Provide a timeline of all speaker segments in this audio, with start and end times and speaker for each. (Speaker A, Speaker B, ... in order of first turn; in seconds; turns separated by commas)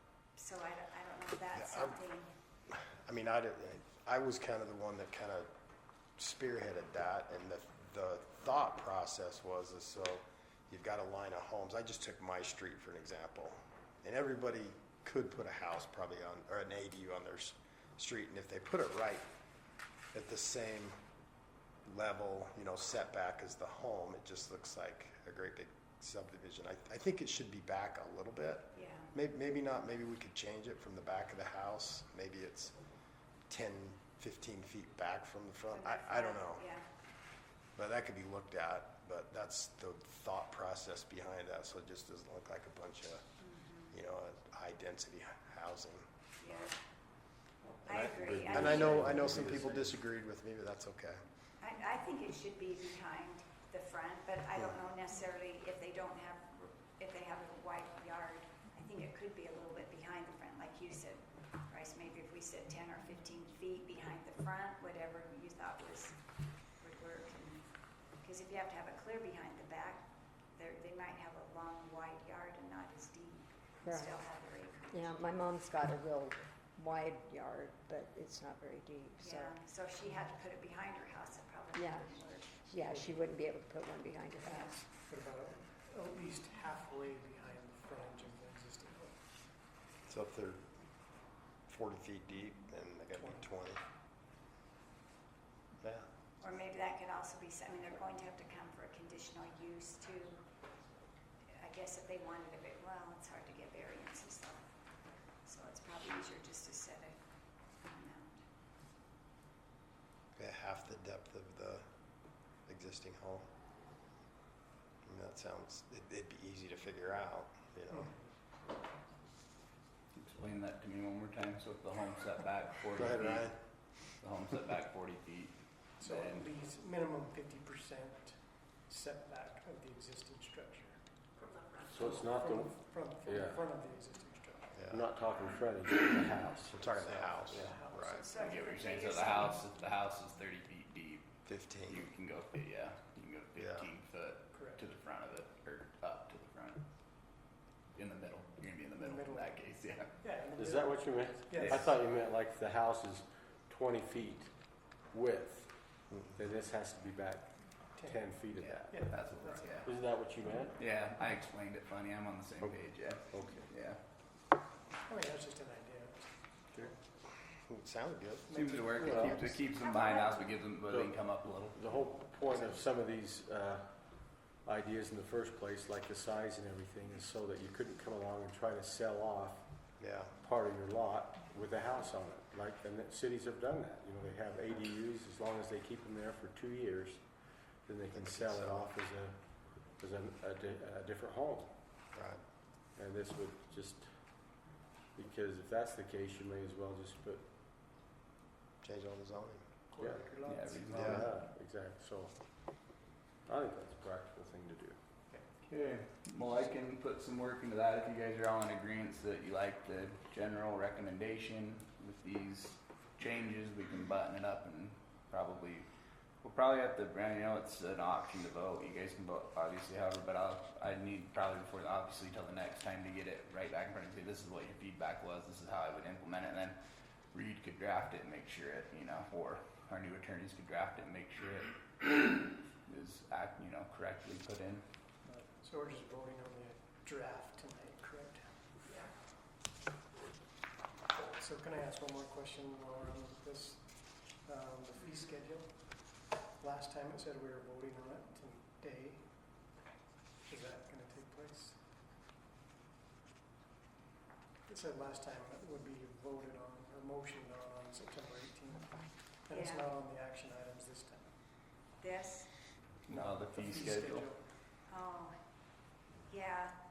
Speaker A: 0.3-2.3, Speaker B: 1.6-2.0, Speaker B: 2.7-5.5, Speaker B: 6.2-19.2, Speaker B: 20.1-21.0, Speaker B: 21.9-32.8, Speaker A: 28.7-29.1, Speaker B: 33.5-36.6, Speaker A: 35.7-36.9, Speaker B: 37.8-43.2, Speaker A: 43.4-44.0, Speaker B: 43.9-46.0, Speaker A: 46.4-46.8, Speaker C: 47.9-50.0, Speaker A: 47.9-49.5, Speaker B: 48.5-51.2, Speaker A: 51.6-66.2, Speaker A: 66.8-67.6, Speaker A: 68.2-75.4, Speaker D: 73.8-74.1, Speaker D: 74.9-79.5, Speaker A: 79.2-82.8, Speaker D: 81.8-82.0, Speaker D: 82.7-84.8, Speaker E: 82.9-83.2, Speaker E: 85.1-89.2, Speaker B: 90.1-90.6, Speaker B: 91.7-93.8, Speaker E: 93.2-93.5, Speaker B: 95.8-96.1, Speaker A: 96.4-100.5, Speaker A: 101.5-104.7, Speaker A: 105.4-107.2, Speaker A: 107.8-108.4, Speaker B: 110.4-111.8, Speaker B: 112.7-113.5, Speaker B: 115.0-118.1, Speaker F: 120.2-123.5, Speaker B: 122.9-123.6, Speaker F: 124.2-126.5, Speaker E: 126.0-131.0, Speaker C: 131.9-132.7, Speaker E: 131.9-134.8, Speaker C: 133.2-133.6, Speaker B: 134.8-135.1, Speaker C: 134.9-137.8, Speaker B: 136.7-138.3, Speaker E: 137.1-138.9, Speaker A: 138.1-139.6, Speaker F: 138.4-141.3, Speaker B: 141.5-142.0, Speaker F: 141.8-146.9, Speaker B: 143.6-143.9, Speaker E: 144.5-144.8, Speaker F: 147.9-150.2, Speaker E: 149.0-149.6, Speaker E: 150.2-151.9, Speaker C: 150.6-154.5, Speaker F: 151.6-151.9, Speaker C: 155.1-155.7, Speaker C: 156.3-159.1, Speaker E: 157.9-158.2, Speaker F: 158.6-159.9, Speaker E: 158.9-159.9, Speaker C: 159.8-160.8, Speaker F: 160.8-164.0, Speaker C: 163.3-163.7, Speaker E: 165.1-167.0, Speaker B: 167.7-169.6, Speaker E: 168.5-169.6, Speaker F: 168.5-171.8, Speaker C: 169.0-169.4, Speaker A: 169.8-170.5, Speaker C: 171.7-173.9, Speaker C: 174.6-179.7, Speaker B: 180.0-180.3, Speaker C: 180.4-187.2, Speaker C: 187.9-189.4, Speaker B: 188.1-188.9, Speaker C: 190.0-191.8, Speaker B: 192.1-192.4, Speaker C: 193.0-194.1, Speaker C: 195.2-197.5, Speaker B: 198.8-199.6, Speaker E: 199.9-201.1, Speaker C: 200.0-200.3, Speaker F: 200.4-201.3, Speaker C: 200.9-202.4, Speaker B: 200.9-201.3, Speaker C: 203.5-205.0, Speaker E: 205.3-205.6, Speaker F: 205.7-215.9, Speaker F: 216.4-226.8, Speaker F: 227.3-234.8, Speaker E: 235.2-238.6, Speaker E: 241.4-249.3, Speaker E: 250.5-251.8, Speaker E: 254.7-261.3, Speaker A: 259.5-259.9, Speaker A: 262.0-262.5, Speaker F: 263.1-264.3, Speaker E: 263.1-264.5, Speaker A: 264.9-265.4, Speaker A: 266.3-266.8